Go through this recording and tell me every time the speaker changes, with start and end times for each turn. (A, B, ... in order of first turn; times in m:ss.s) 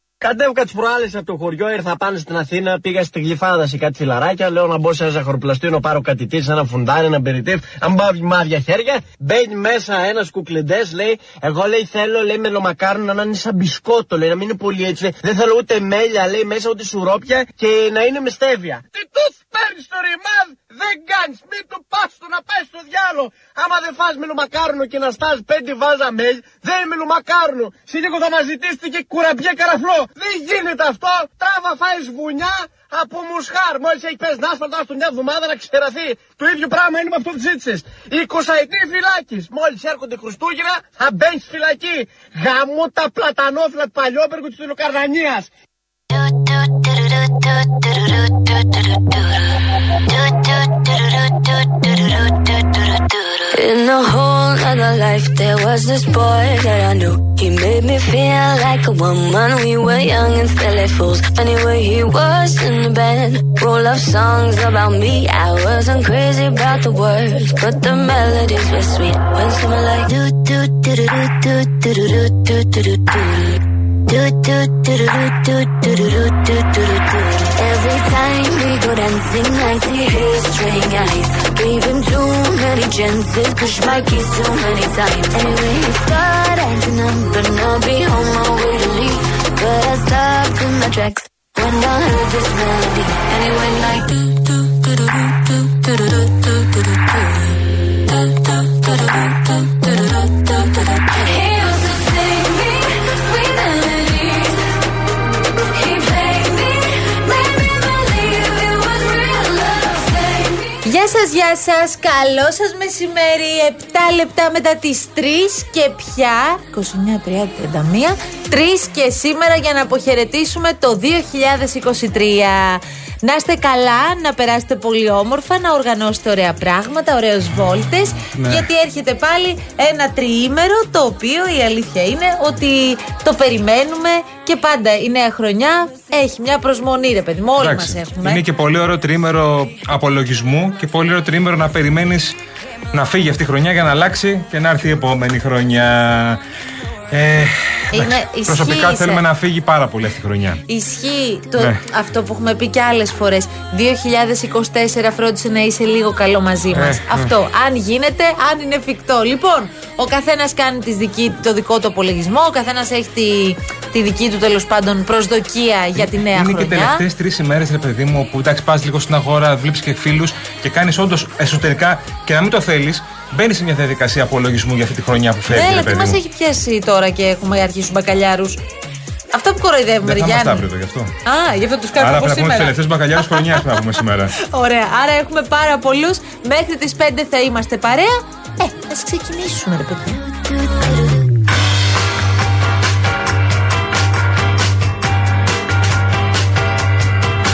0:00.2-0:45.5 A
0:46.1-0:49.0 B
0:50.1-0:52.4 B
0:53.5-1:37.4 B
1:38.4-1:41.7 B
1:50.8-2:18.4 C
2:08.4-2:08.7 D
2:17.6-2:22.4 D
2:22.9-2:26.4 D
2:27.1-2:30.6 D
2:27.9-2:29.2 C
2:30.7-2:47.0 C
2:36.7-2:37.3 D
2:46.0-2:56.2 D
2:55.5-2:58.6 C
2:59.3-3:00.7 C
3:00.0-3:01.1 D
3:01.2-3:10.4 C
3:02.0-3:04.3 D